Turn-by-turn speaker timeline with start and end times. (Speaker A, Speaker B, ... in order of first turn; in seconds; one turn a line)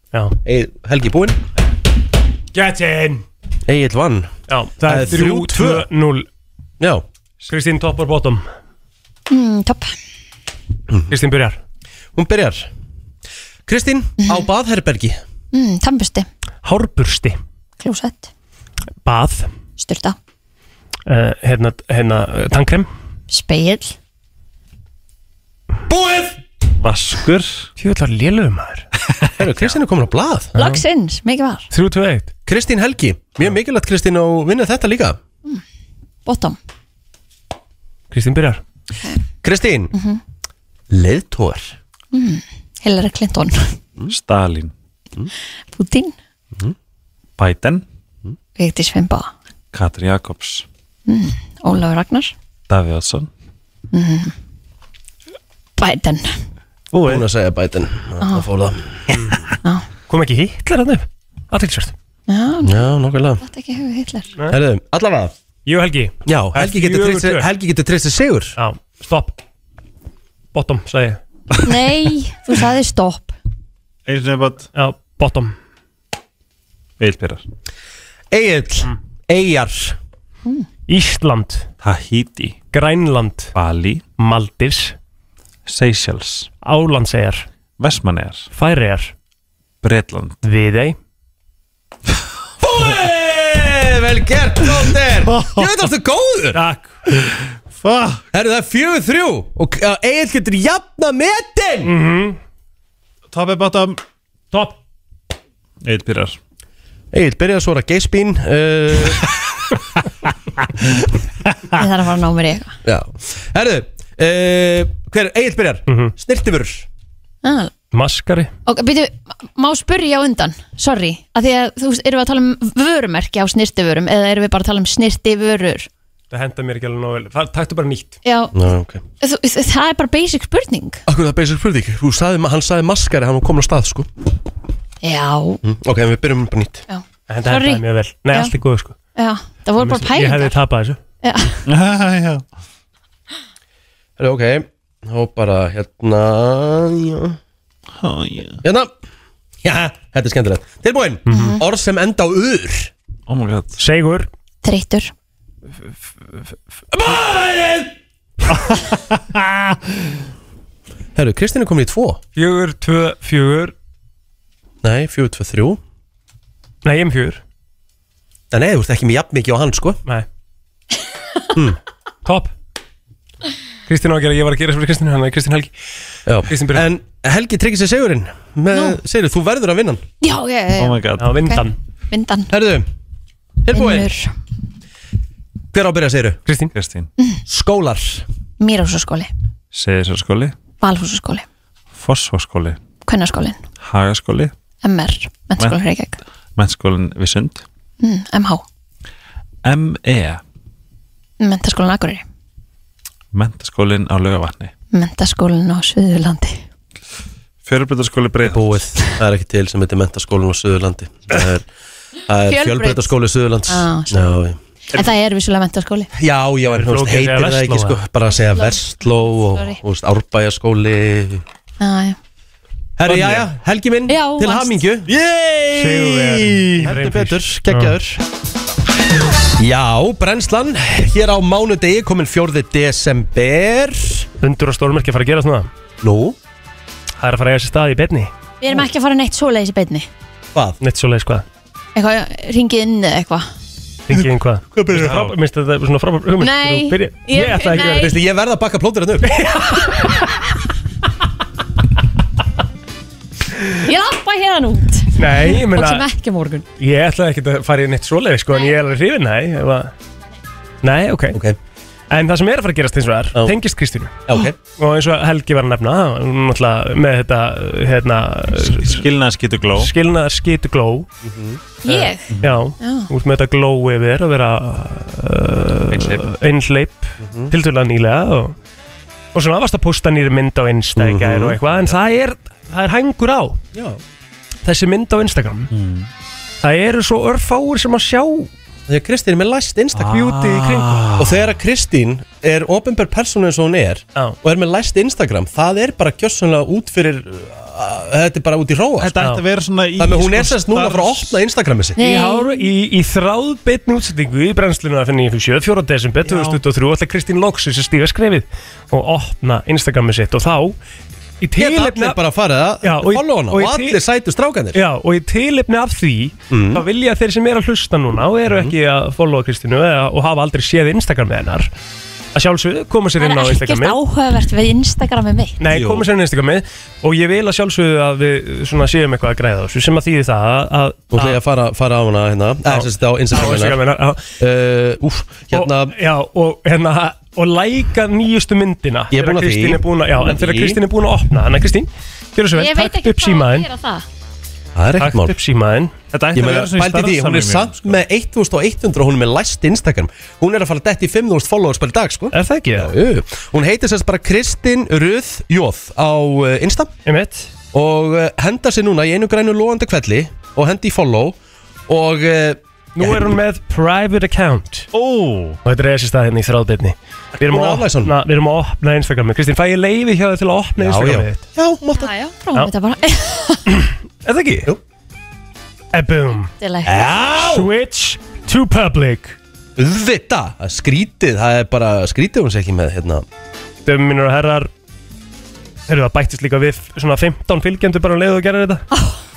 Speaker A: 0.5-1.4
Speaker B: 2.5-3.2
Speaker A: 3.7-5.9
Speaker B: 4.5-6.3
Speaker A: 6.8-7.0
Speaker B: 7.5-8.5
Speaker C: 9.3-9.9
Speaker A: 10.9-11.2
Speaker B: 11.1-11.6
Speaker A: 12.1-12.7
Speaker A: 13.7-15.2
Speaker C: 14.2-14.5
Speaker C: 15.5-16.3
Speaker B: 16.6-17.4
Speaker C: 17.8-18.3
Speaker B: 19.1-19.5
Speaker C: 19.8-20.2
Speaker B: 21.1-22.9
Speaker C: 23.3-24.0
Speaker A: 25.9-26.4
Speaker D: 26.8-27.7
Speaker B: 27.8-28.9
Speaker A: 29.4-30.6
Speaker C: 30.6-31.7
Speaker B: 31.7-32.3
Speaker A: 32.5-35.2
Speaker C: 36.2-36.6
Speaker B: 38.1-38.6
Speaker A: 39.4-39.9
Speaker C: 39.9-40.2
Speaker A: 40.9-41.8
Speaker C: 42.1-43.8
Speaker D: 44.1-44.7
Speaker C: 45.7-46.1
Speaker D: 47.4-47.8
Speaker C: 48.6-49.3
Speaker D: 49.7-50.7
Speaker C: 51.1-52.3
Speaker D: 52.7-53.3
Speaker C: 53.9-54.3
Speaker C: 55.8-56.4
Speaker A: 56.9-59.1
Speaker B: 60.1-61.9
Speaker C: 62.3-62.8
Speaker A: 62.6-63.4
Speaker C: 63.4-64.3
Speaker A: 64.5-65.3
Speaker B: 65.7-67.5
Speaker A: 66.3-68.6
Speaker B: 68.6-69.4
Speaker B: 70.5-71.2
Speaker C: 71.6-73.4
Speaker D: 74.1-74.7
Speaker B: 74.8-75.5
Speaker D: 77.0-77.4
Speaker A: 78.3-80.0
Speaker B: 80.9-81.7
Speaker D: 81.8-82.6
Speaker B: 82.7-83.5
Speaker D: 83.5-84.0
Speaker B: 84.2-85.0
Speaker D: 85.7-86.5
Speaker B: 86.6-87.5
Speaker D: 87.8-88.5
Speaker B: 88.5-89.1
Speaker D: 89.8-90.4
Speaker B: 90.4-91.0
Speaker A: 92.6-96.6
Speaker D: 95.3-95.7
Speaker B: 96.5-97.0
Speaker D: 97.2-98.2
Speaker A: 98.3-101.9
Speaker B: 101.8-102.4
Speaker D: 103.3-104.0
Speaker B: 104.5-104.8
Speaker D: 105.8-106.4
Speaker A: 107.1-109.3
Speaker C: 111.7-112.8
Speaker A: 112.8-116.9
Speaker B: 115.9-116.1
Speaker C: 117.4-117.7
Speaker B: 117.9-118.5
Speaker C: 118.7-125.9
Speaker B: 126.3-128.2
Speaker C: 128.2-128.6
Speaker A: 128.5-129.0
Speaker C: 129.2-131.0
Speaker A: 131.1-134.1
Speaker C: 135.0-135.6
Speaker A: 135.6-136.8
Speaker C: 136.9-138.5
Speaker B: 137.3-138.9
Speaker C: 139.2-140.6
Speaker B: 139.8-141.0
Speaker C: 141.2-141.6
Speaker D: 141.7-142.4
Speaker A: 144.2-147.4
Speaker D: 148.0-148.6
Speaker A: 148.6-148.9
Speaker A: 149.6-152.9
Speaker C: 151.3-151.6
Speaker B: 151.3-151.6
Speaker D: 153.3-153.8
Speaker B: 153.8-154.3
Speaker C: 154.6-155.1
Speaker A: 156.9-157.9
Speaker D: 158.5-160.1
Speaker A: 161.2-162.2
Speaker B: 162.4-163.7
Speaker A: 164.8-165.8
Speaker B: 166.8-167.4
Speaker A: 168.5-170.0
Speaker B: 172.2-172.5
Speaker B: 173.9-175.7
Speaker A: 176.3-180.0
Speaker B: 176.5-176.9
Speaker C: 178.7-179.0
Speaker C: 180.2-182.5
Speaker D: 180.8-181.4
Speaker B: 181.2-181.8
Speaker A: 182.5-182.9
Speaker A: 183.6-184.1
Speaker C: 183.7-184.3
Speaker A: 185.7-186.4
Speaker B: 186.5-186.7
Speaker D: 186.7-187.1
Speaker A: 187.5-188.3
Speaker C: 188.6-189.3
Speaker D: 189.7-190.6
Speaker C: 190.8-191.5
Speaker D: 191.9-192.8
Speaker C: 193.1-193.6
Speaker D: 193.8-194.5
Speaker C: 194.8-196.2
Speaker D: 196.6-197.6
Speaker C: 198.0-198.7
Speaker D: 199.6-200.4
Speaker C: 201.4-202.2
Speaker D: 203.3-204.7
Speaker C: 204.9-206.6
Speaker D: 207.6-208.8
Speaker A: 208.4-211.6
Speaker A: 212.3-214.6
Speaker C: 212.4-213.1
Speaker C: 213.7-214.3
Speaker C: 214.9-216.1
Speaker A: 216.1-221.4
Speaker B: 216.7-218.0
Speaker C: 218.5-218.8
Speaker C: 219.4-219.8
Speaker C: 221.8-222.2
Speaker A: 223.0-225.1
Speaker D: 223.1-223.5
Speaker C: 224.1-224.8
Speaker D: 225.1-226.9
Speaker B: 225.7-228.0
Speaker A: 226.8-228.2
Speaker A: 229.6-234.3
Speaker B: 234.4-235.7
Speaker A: 236.0-236.4
Speaker B: 237.2-238.3
Speaker C: 238.6-240.1
Speaker B: 240.8-241.5
Speaker C: 241.9-243.5
Speaker B: 244.1-248.2
Speaker A: 244.8-245.2
Speaker D: 245.0-245.3
Speaker C: 246.4-248.2
Speaker A: 247.9-249.4
Speaker B: 249.3-250.4
Speaker C: 253.8-256.6
Speaker B: 255.2-256.1
Speaker B: 256.8-259.9
Speaker B: 260.8-261.4
Speaker A: 261.3-261.6
Speaker B: 262.1-269.0
Speaker A: 264.3-264.6
Speaker D: 268.6-269.9
Speaker B: 269.8-271.1
Speaker A: 271.2-271.6
Speaker C: 271.8-273.1
Speaker B: 271.9-278.6
Speaker D: 275.9-276.3
Speaker A: 277.2-277.5
Speaker B: 279.3-283.6
Speaker A: 281.0-281.6
Speaker A: 283.7-284.0
Speaker B: 284.6-285.7
Speaker D: 285.7-286.1
Speaker B: 286.6-288.5
Speaker A: 288.9-290.2
Speaker D: 289.9-291.5
Speaker B: 290.0-291.1
Speaker A: 291.2-299.2
Speaker D: 299.0-301.4
Speaker A: 300.0-302.0
Speaker C: 302.0-302.7
Speaker B: 302.0-310.8
Speaker D: 306.2-306.6
Speaker B: 311.4-312.2
Speaker A: 311.6-314.8
Speaker B: 312.8-314.0
Speaker B: 314.7-321.7
Speaker A: 316.5-316.8
Speaker B: 322.3-324.0
Speaker C: 323.2-325.6
Speaker B: 325.6-331.4
Speaker D: 325.7-326.1
Speaker A: 331.1-333.8
Speaker B: 332.7-334.3
Speaker A: 334.4-336.0
Speaker B: 335.5-343.7
Speaker A: 339.1-340.8
Speaker C: 342.5-344.1
Speaker A: 344.8-345.3
Speaker B: 345.0-345.9
Speaker D: 346.1-348.0
Speaker A: 346.4-356.9
Speaker B: 352.3-352.9
Speaker B: 357.1-357.5
Speaker A: 357.7-361.4
Speaker A: 361.9-363.4
Speaker B: 363.0-364.9
Speaker D: 364.9-365.6
Speaker B: 365.6-371.4
Speaker A: 367.4-368.2
Speaker A: 370.8-372.1
Speaker C: 371.9-373.7
Speaker B: 373.7-374.7
Speaker B: 375.9-376.5
Speaker C: 376.6-376.9
Speaker A: 376.8-377.7
Speaker B: 377.4-379.4
Speaker A: 379.8-383.2
Speaker B: 383.9-384.7
Speaker B: 385.9-388.9
Speaker C: 388.9-389.2